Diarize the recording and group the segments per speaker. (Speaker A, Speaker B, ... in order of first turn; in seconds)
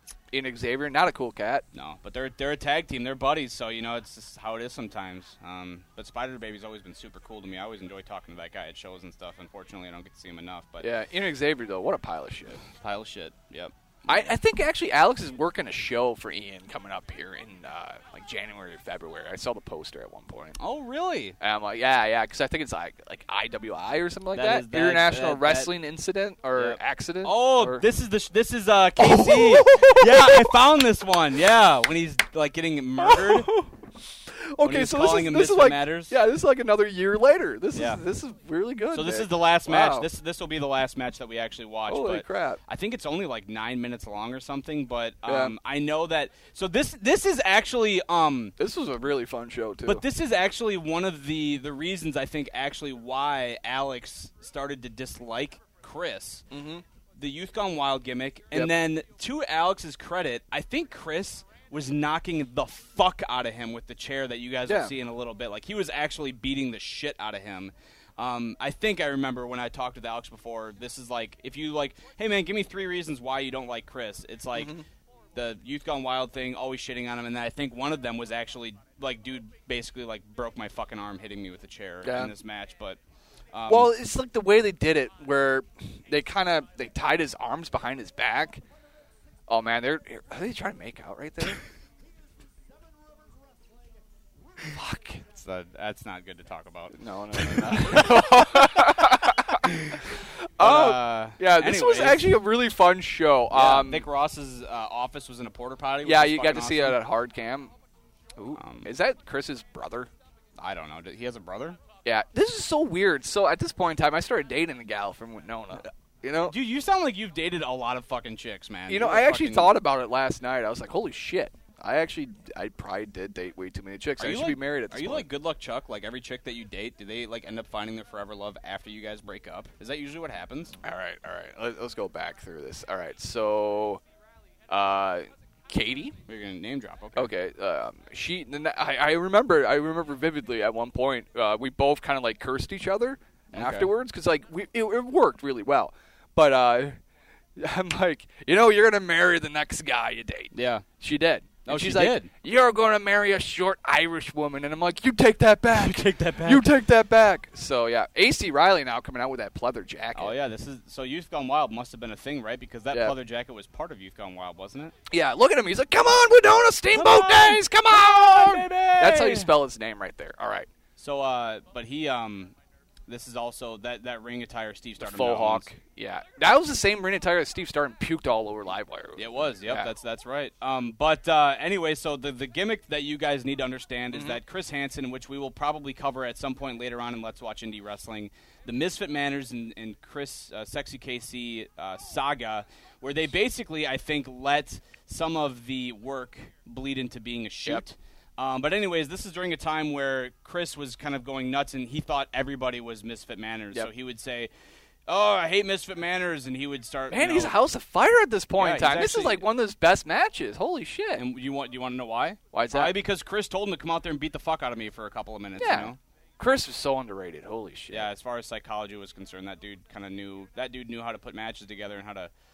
Speaker A: 0.3-1.6, 10.8-12.6, 14.1-20.6, 21.4-27.8, 29.0-30.6, 33.0-40.1, 41.9-42.6, 45.2-45.5, 48.6-50.0, 56.5-56.8, 64.7-64.9, 74.5-74.8, 82.0-82.3, 83.7-88.6, 89.5-91.6, 94.7-95.2, 97.0-104.1, 106.0-107.7, 108.3-110.1, 112.0-116.5, 118.9-125.3, 130.8-134.0, 134.7-136.2, 137.1-147.0, 147.6-160.3, 165.1-170.7, 175.0-179.9, 184.1-184.4, 207.1-211.2, 212.5-212.9, 215.6-218.1
Speaker B: 1.7-10.9, 12.7-14.3, 20.6-21.4, 24.3-25.7, 26.6-33.5, 34.6-36.1, 37.7-38.0, 38.9-48.6, 49.8-56.5, 57.1-74.8, 75.3-83.0, 83.5-83.9, 95.3-100.0, 100.6-102.3, 103.5-107.0, 108.5-108.9, 110.6-111.8, 116.4-119.7, 124.2-130.8, 136.3-137.3, 143.5-143.9, 150.5-150.8, 151.7-152.3, 155.7-156.7, 160.1-164.9, 166.9-169.5, 171.0-172.5, 173.1-175.7, 179.2-204.5, 205.1-207.6, 208.6-209.4, 211.1-216.0, 217.9-222.3